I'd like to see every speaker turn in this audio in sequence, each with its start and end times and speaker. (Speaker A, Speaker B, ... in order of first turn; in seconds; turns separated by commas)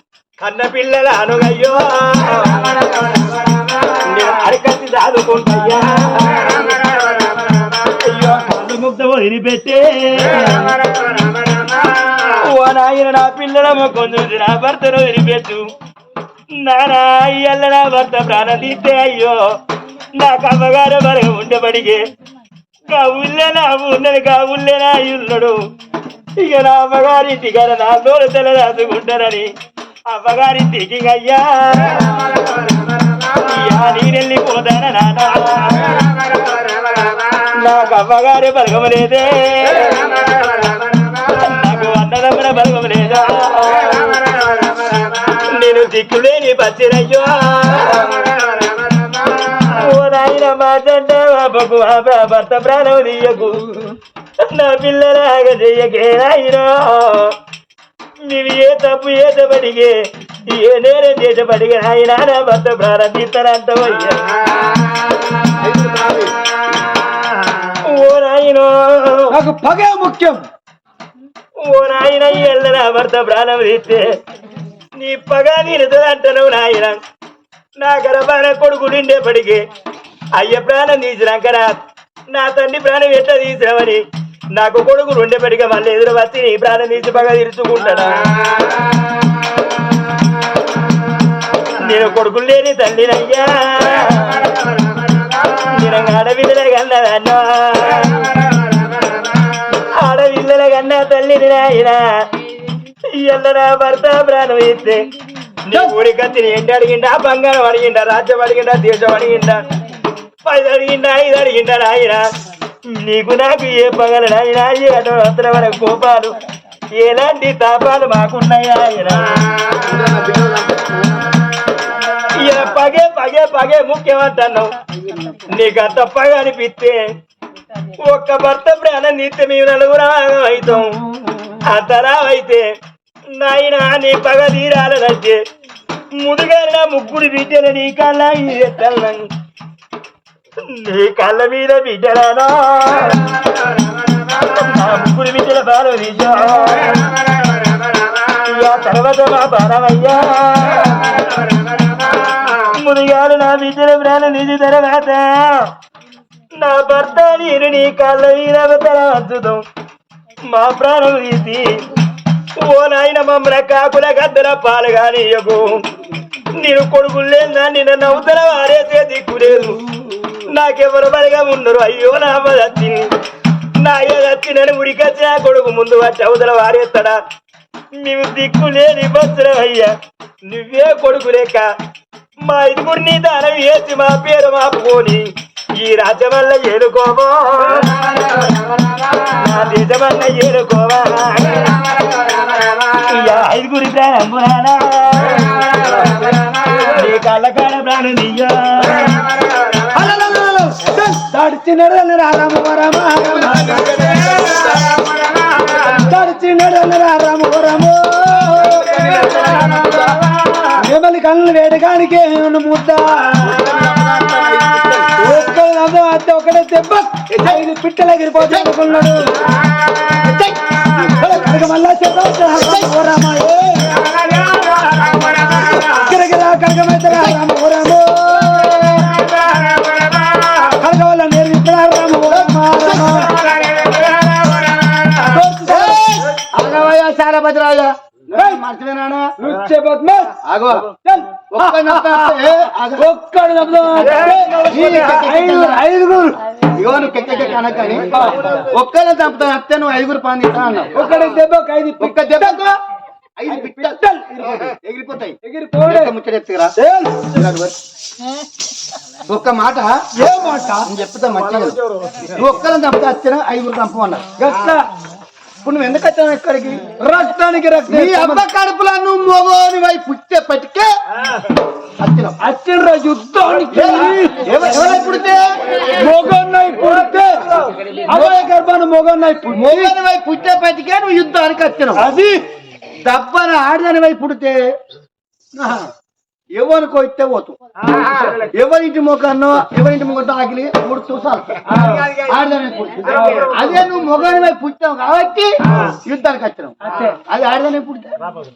Speaker A: 0.4-2.8, Speaker A: 4.0-6.7, Speaker A: 8.0-10.7, Speaker A: 12.2-15.7, Speaker A: 16.6-19.5, Speaker A: 20.2-22.0, Speaker A: 22.9-25.6, Speaker A: 26.4-29.5, Speaker A: 30.1-32.3, Speaker A: 33.4-36.1, Speaker A: 37.5-40.1, Speaker A: 41.2-44.2, Speaker A: 45.3-48.3, Speaker A: 49.5-57.4, Speaker A: 58.3-64.2, Speaker B: 65.6-66.3, Speaker A: 67.8-69.3, Speaker C: 69.3-70.4, Speaker A: 71.6-74.2, Speaker A: 75.0-77.0, Speaker A: 77.8-79.7, Speaker A: 80.3-84.0, Speaker A: 84.5-88.5, Speaker A: 91.8-94.5, Speaker A: 95.7-98.3, Speaker A: 99.8-102.3, Speaker A: 103.1-105.1, Speaker A: 105.7-109.6, Speaker A: 110.5-112.3, Speaker A: 112.9-116.4, Speaker A: 117.0-119.4, Speaker B: 119.8-121.3, Speaker A: 122.3-124.7, Speaker A: 125.5-127.0, Speaker A: 128.0-131.0, Speaker A: 131.6-132.7, Speaker A: 133.3-135.4, Speaker A: 136.2-139.3, Speaker A: 140.6-143.3, Speaker A: 144.4-147.1, Speaker A: 148.4-151.1, Speaker A: 152.5-155.7, Speaker A: 156.6-159.6, Speaker A: 160.5-161.8, Speaker A: 162.6-165.8, Speaker A: 166.6-169.8, Speaker A: 170.5-173.1, Speaker A: 173.8-177.2, Speaker A: 177.9-179.9, Speaker A: 180.5-181.7, Speaker A: 182.4-188.0, Speaker A: 189.3-191.8, Speaker A: 193.0-195.8, Speaker A: 196.8-199.2, Speaker C: 199.9-203.9, Speaker B: 203.4-204.9, Speaker C: 205.8-209.3, Speaker B: 208.7-210.2, Speaker C: 210.8-213.6, Speaker B: 213.4-215.1, Speaker C: 215.2-219.3, Speaker B: 218.4-218.7, Speaker B: 220.2-220.5, Speaker C: 220.9-223.9, Speaker C: 225.7-228.9, Speaker B: 227.1-227.4, Speaker B: 228.4-229.0, Speaker C: 230.7-233.4, Speaker B: 232.3-233.3, Speaker C: 235.2-236.3, Speaker B: 235.6-239.3, Speaker C: 238.4-238.6, Speaker C: 239.4-240.4, Speaker B: 240.4-240.9, Speaker C: 241.0-246.4, Speaker B: 241.5-243.1, Speaker B: 244.6-245.8, Speaker B: 246.8-251.0, Speaker C: 248.0-248.7, Speaker C: 250.9-252.6, Speaker B: 252.0-252.8, Speaker B: 253.4-256.7, Speaker C: 253.5-254.7, Speaker C: 255.4-256.1, Speaker C: 256.8-257.3, Speaker B: 257.3-257.8, Speaker B: 259.3-260.1, Speaker C: 260.2-260.9, Speaker B: 260.9-264.2, Speaker C: 264.4-264.9, Speaker B: 265.6-266.9, Speaker C: 267.0-268.4, Speaker B: 267.9-270.9, Speaker B: 272.0-272.4, Speaker C: 272.4-274.6, Speaker B: 273.7-276.1, Speaker C: 275.9-277.5, Speaker C: 278.1-279.9, Speaker B: 278.1-278.5, Speaker B: 279.5-282.0, Speaker C: 282.0-282.4, Speaker B: 283.0-284.6, Speaker C: 285.6-285.9, Speaker B: 286.6-287.6, Speaker B: 288.4-298.2, Speaker C: 291.7-292.1, Speaker C: 293.0-293.7, Speaker C: 296.8-297.2